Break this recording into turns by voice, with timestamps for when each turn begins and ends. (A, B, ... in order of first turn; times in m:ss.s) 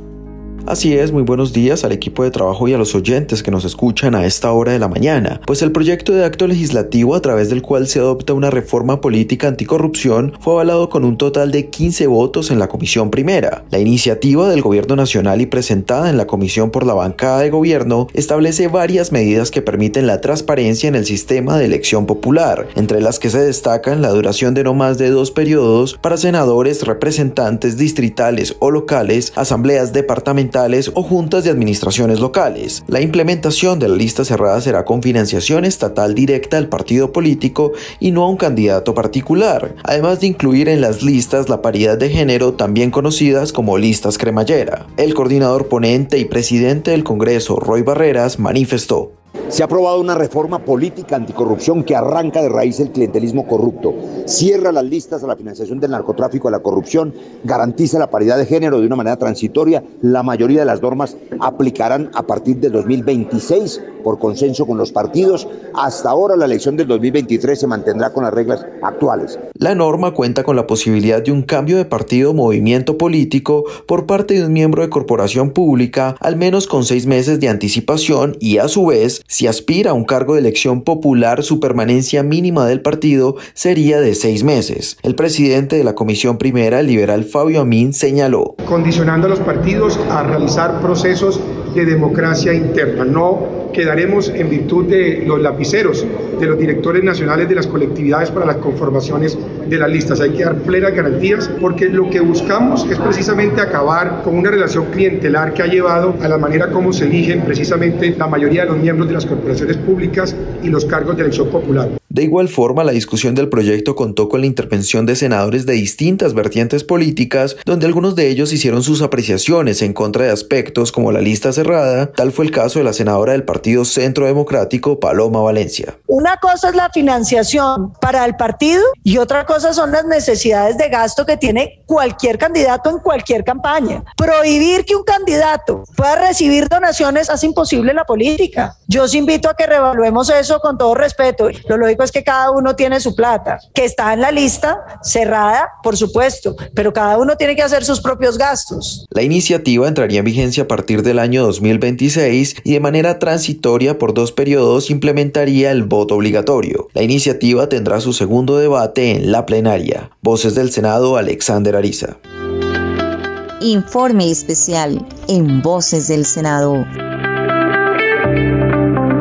0:00.7-0:49.2 A
0:49.5-1:09.4 B
1:09.6-1:28.6 A
1:28.6-1:52.0 C
1:52.1-2:06.0 A
2:06.1-2:29.0 D
2:29.1-2:42.2 A
2:43.6-2:46.9 E